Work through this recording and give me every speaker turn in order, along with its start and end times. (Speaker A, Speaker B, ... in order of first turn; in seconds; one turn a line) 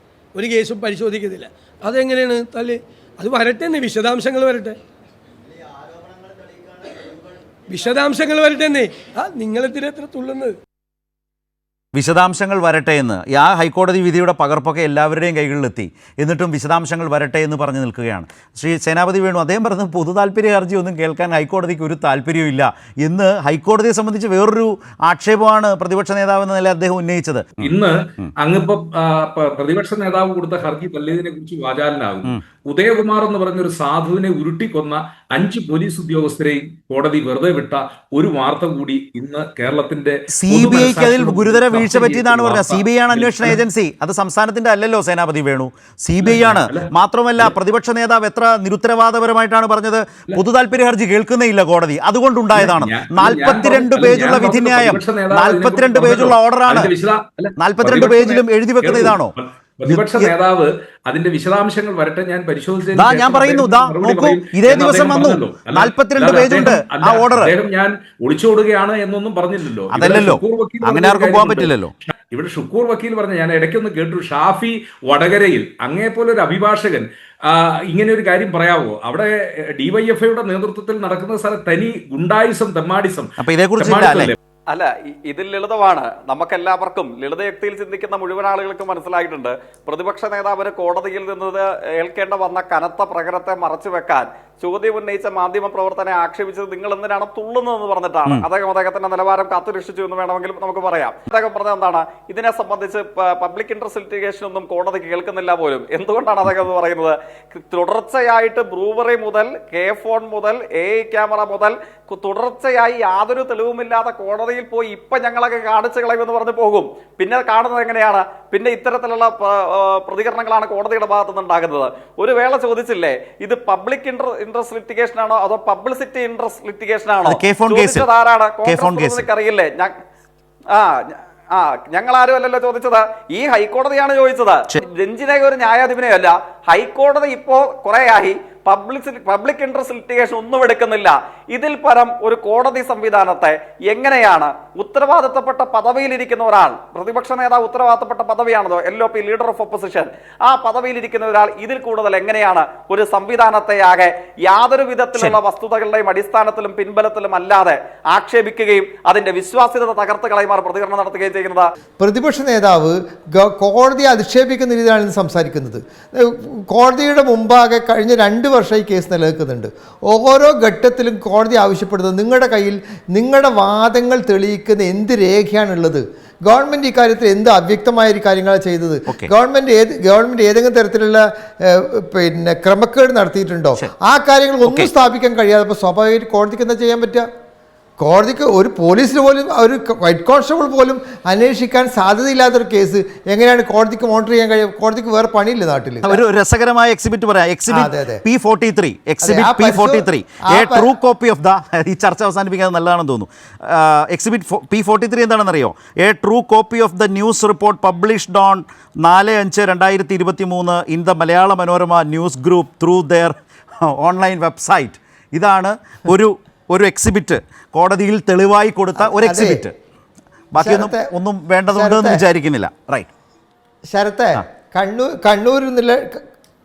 Speaker A: 0.3-4.8
Speaker A: 7.7-10.5
Speaker B: 11.9-28.3
Speaker C: 27.6-43.6
Speaker B: 40.3-56.9
Speaker C: 46.2-47.5
Speaker C: 52.5-84.3
Speaker B: 57.6-59.3
Speaker B: 59.9-60.3
Speaker B: 62.9-67.5
Speaker B: 69.9-71.9
Speaker B: 83.4-84.3
Speaker D: 84.7-129.9
Speaker B: 127.2-128.1
Speaker B: 128.6-129.2
Speaker D: 130.7-161.7
Speaker E: 162.0-187.2
Speaker B: 184.6-184.9
Speaker E: 188.0-196.2
Speaker B: 196.0-219.7
Speaker E: 197.7-198.2
Speaker E: 199.2-200.9
Speaker E: 219.0-219.6
Speaker B: 220.5-223.1
Speaker E: 220.6-221.1
Speaker E: 221.7-222.2
Speaker E: 223.9-226.2